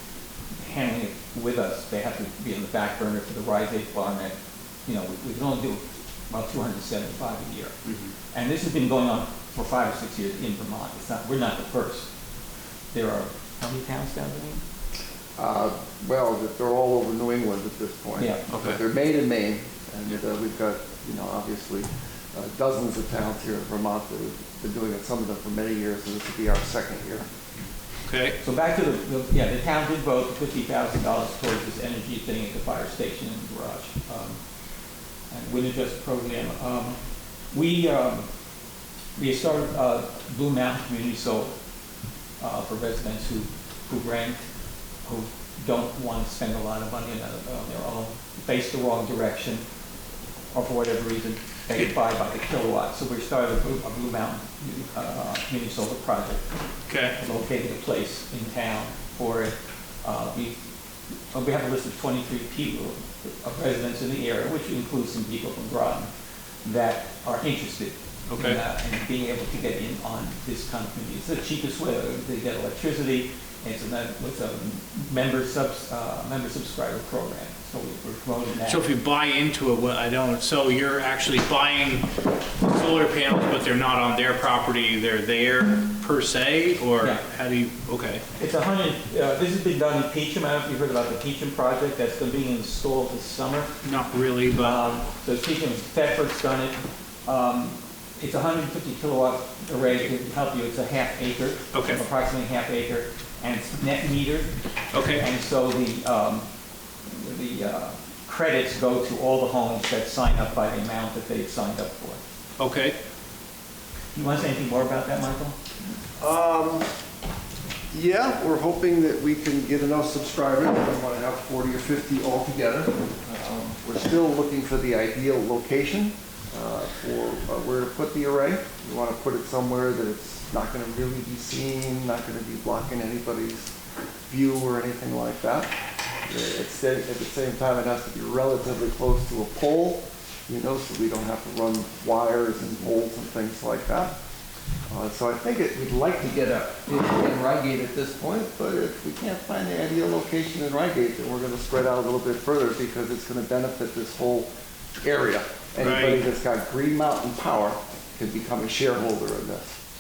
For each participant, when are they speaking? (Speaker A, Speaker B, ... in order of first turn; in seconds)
Speaker A: 0.5-7.8, 8.3-12.1, 12.9-14.6, 18.2-18.5, 28.4-34.4, 35.3-37.0, 37.5-38.3, 39.2-41.5, 42.4-44.4, 45.0-49.6, 50.5-56.5, 57.2-60.6, 61.3-66.1, 66.6-78.9, 88.4-93.7, 94.6-104.5, 105.1-106.5, 107.1-112.2, 114.1-115.6
Speaker B: 15.4-27.3, 116.2-116.9, 117.9-133.7, 134.3-144.1, 144.9-154.5, 155.0-159.8
Speaker C: 18.5-18.8, 28.1-28.4, 56.9-57.2, 68.3-68.6, 78.7-82.1, 82.6-88.2, 93.8-94.8, 101.7-102.0, 104.9-105.3, 112.6-113.0, 155.8-156.2